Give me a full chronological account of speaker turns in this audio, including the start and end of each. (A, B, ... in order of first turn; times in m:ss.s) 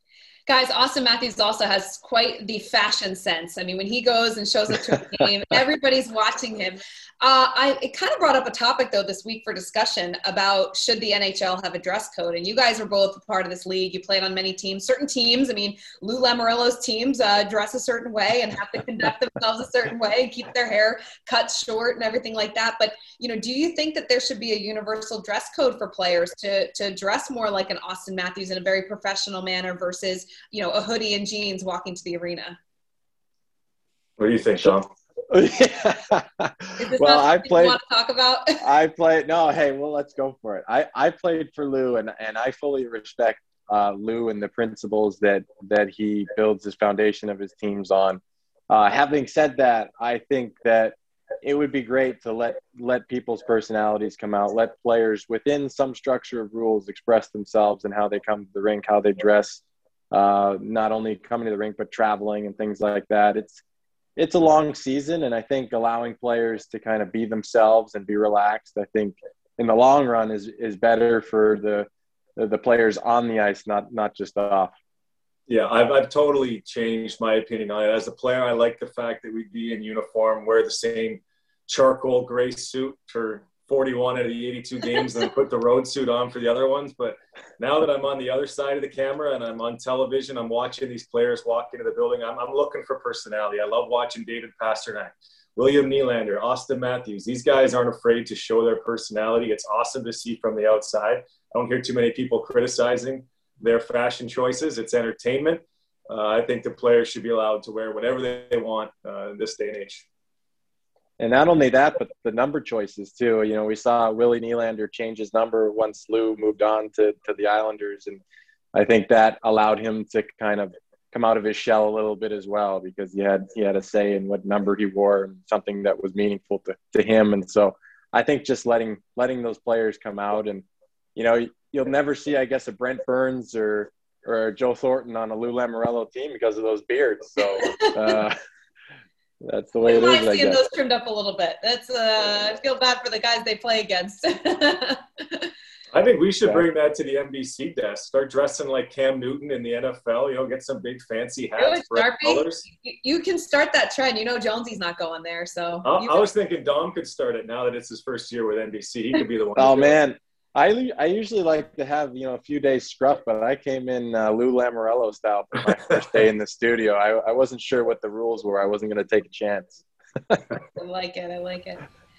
0:00.5-0:32.6 A
0:34.2-0:34.9 B
0:35.3-0:37.8 C
0:36.8-0:38.6 A
0:38.6-1:03.6 C
1:04.2-1:14.7 C
1:15.5-1:50.1 B
1:51.2-1:58.2 C
1:58.7-2:10.6 C
2:11.2-2:18.4 C
2:17.6-2:18.0 A
2:19.4-2:20.7 C
2:19.8-2:25.5 A
2:25.9-2:32.6 B
2:31.6-2:36.3 A
2:35.8-2:40.0 B
2:39.6-2:50.4 C
2:50.8-2:51.8 A